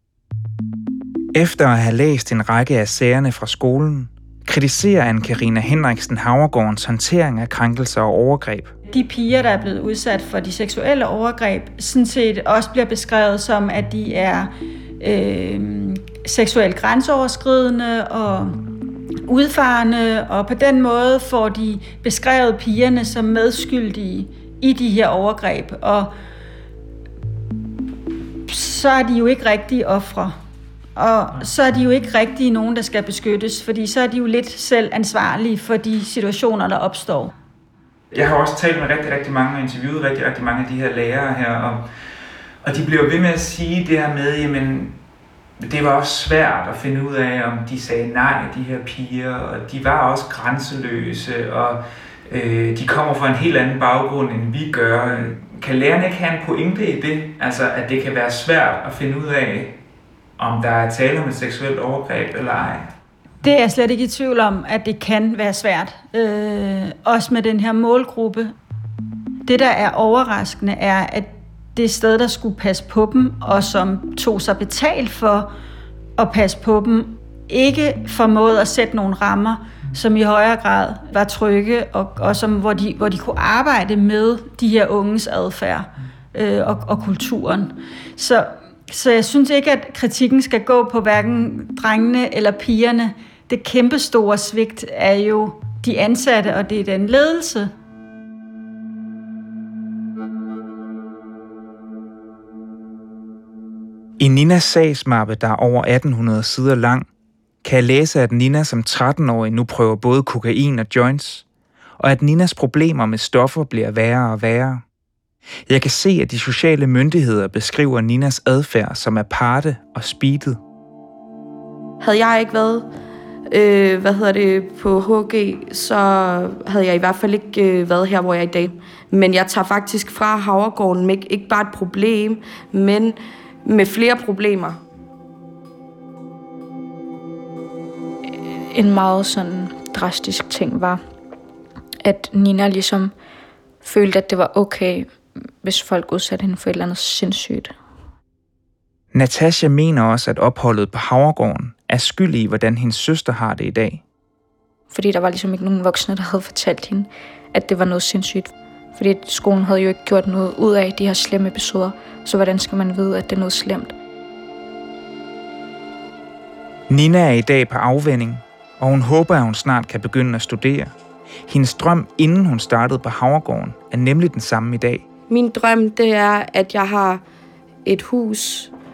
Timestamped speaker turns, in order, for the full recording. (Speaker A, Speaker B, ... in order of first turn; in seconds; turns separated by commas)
Speaker A: 1.3-8.7, Speaker B: 8.9-18.6, Speaker B: 19.2-26.1, Speaker B: 28.4-30.4, Speaker B: 30.9-37.3, Speaker A: 38.1-41.8, Speaker A: 42.6-45.0, Speaker A: 45.6-59.8, Speaker A: 60.4-62.9, Speaker B: 63.4-68.5, Speaker B: 69.4-75.5, Speaker B: 76.2-97.7, Speaker A: 104.2-107.1, Speaker A: 107.6-111.4, Speaker A: 112.0-114.8, Speaker A: 115.7-120.6, Speaker C: 122.0-122.9, Speaker C: 123.5-134.8, Speaker D: 138.7-141.0, Speaker D: 142.0-143.1, Speaker D: 143.8-147.7, Speaker A: 149.1-154.0, Speaker D: 154.9-163.9, Speaker A: 166.9-170.9, Speaker A: 171.5-175.0, Speaker C: 175.3-177.2, Speaker C: 177.8-178.7